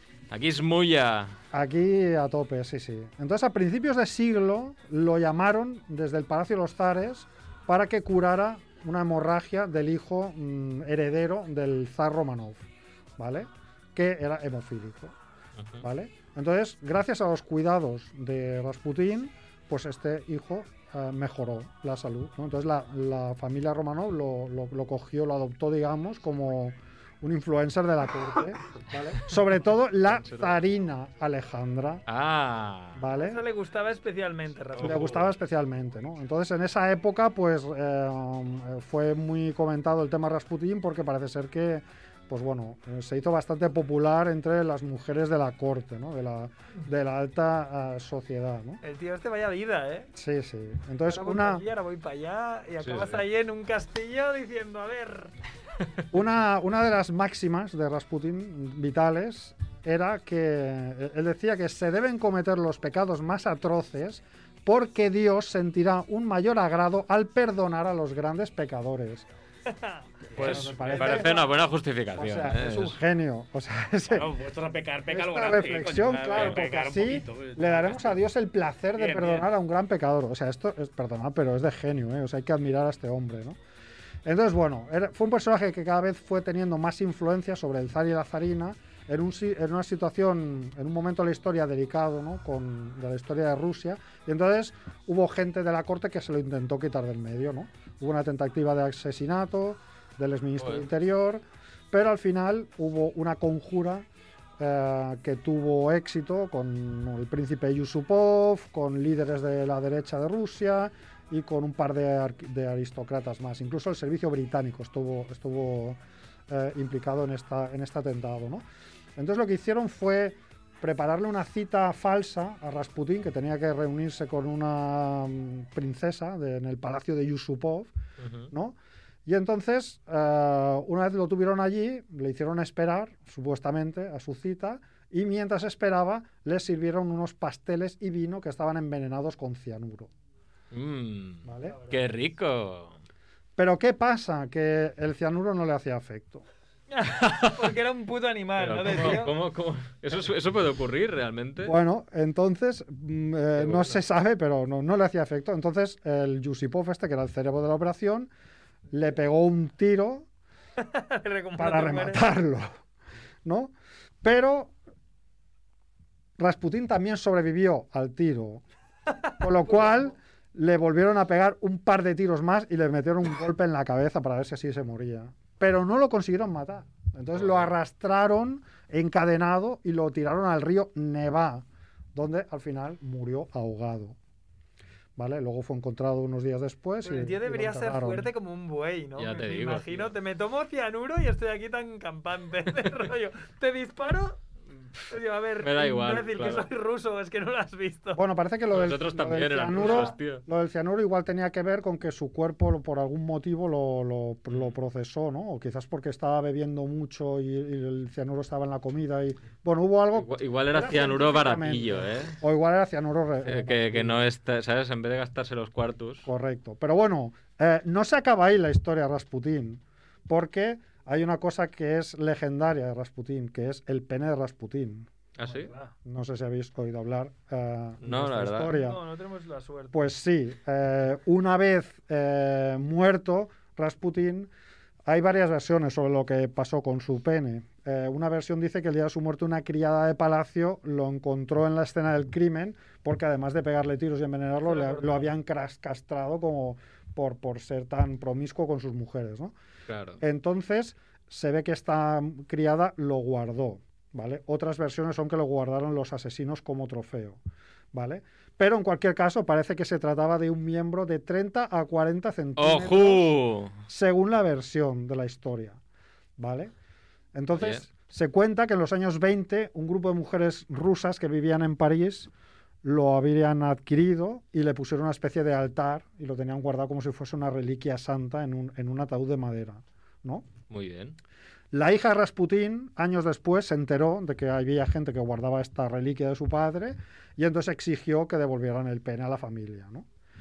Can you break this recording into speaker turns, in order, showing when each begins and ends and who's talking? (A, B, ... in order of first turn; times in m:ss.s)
0:00.3-0:01.4 A
0:01.5-0:12.6 B
0:13.2-0:15.2 B
0:15.8-0:32.0 B
0:30.1-0:30.6 A
0:32.1-0:33.0 A
0:33.0-0:33.4 B
0:33.1-0:35.3 C
0:34.8-0:48.8 B
0:48.8-0:50.1 C
0:50.1-0:51.6 B
0:51.1-0:55.3 C
0:52.8-0:53.2 A
0:56.1-1:09.3 B
1:09.7-1:10.0 C
1:10.3-1:11.5 B
1:10.3-1:10.7 D
1:10.4-1:13.0 A
1:10.8-1:11.4 C
1:12.1-1:14.3 B
1:14.1-1:18.2 D
1:15.1-1:23.6 B
1:16.3-1:16.6 A
1:19.0-1:19.5 D
1:24.2-1:44.0 B
1:40.6-1:40.8 A
1:44.6-1:58.6 B
1:59.2-2:07.9 B
2:08.2-2:08.5 A
2:08.5-2:20.1 B
2:20.7-2:23.0 A
2:21.4-2:21.8 B
2:21.6-2:22.0 C
2:23.6-2:26.4 B
2:26.9-2:29.3 C
2:27.2-2:27.7 A
2:28.6-2:31.7 A
2:31.6-2:38.3 B
2:33.6-2:34.0 A
2:38.9-2:40.3 B
2:40.8-2:42.3 C
2:41.6-2:42.7 B
2:43.4-2:44.7 B
2:46.4-2:48.6 B
2:49.4-3:04.2 B
2:57.3-2:57.7 A
3:05.2-3:08.3 B
3:07.0-3:14.4 C
3:09.2-3:10.1 A
3:14.9-3:16.7 A
3:15.1-3:18.2 C
3:18.1-3:34.2 B
3:18.7-3:20.4 A
3:19.8-3:20.1 C
3:30.1-3:32.4 A
3:33.4-3:36.3 A
3:36.2-3:45.1 B
3:45.4-3:45.7 A
3:45.4-3:45.9 C
3:46.0-3:49.0 B
3:48.0-3:48.8 A
3:48.7-3:50.0 C
3:49.9-3:54.5 B
3:55.0-4:09.5 B
4:04.6-4:05.3 C
4:09.9-4:10.2 A
4:10.2-4:17.4 B
4:17.9-4:25.8 B
4:22.6-4:23.7 A
4:26.4-4:26.7 B
4:27.3-4:32.3 B
4:27.6-4:27.8 A
4:32.8-4:40.5 B
4:40.7-4:41.2 A
4:41.7-4:50.0 B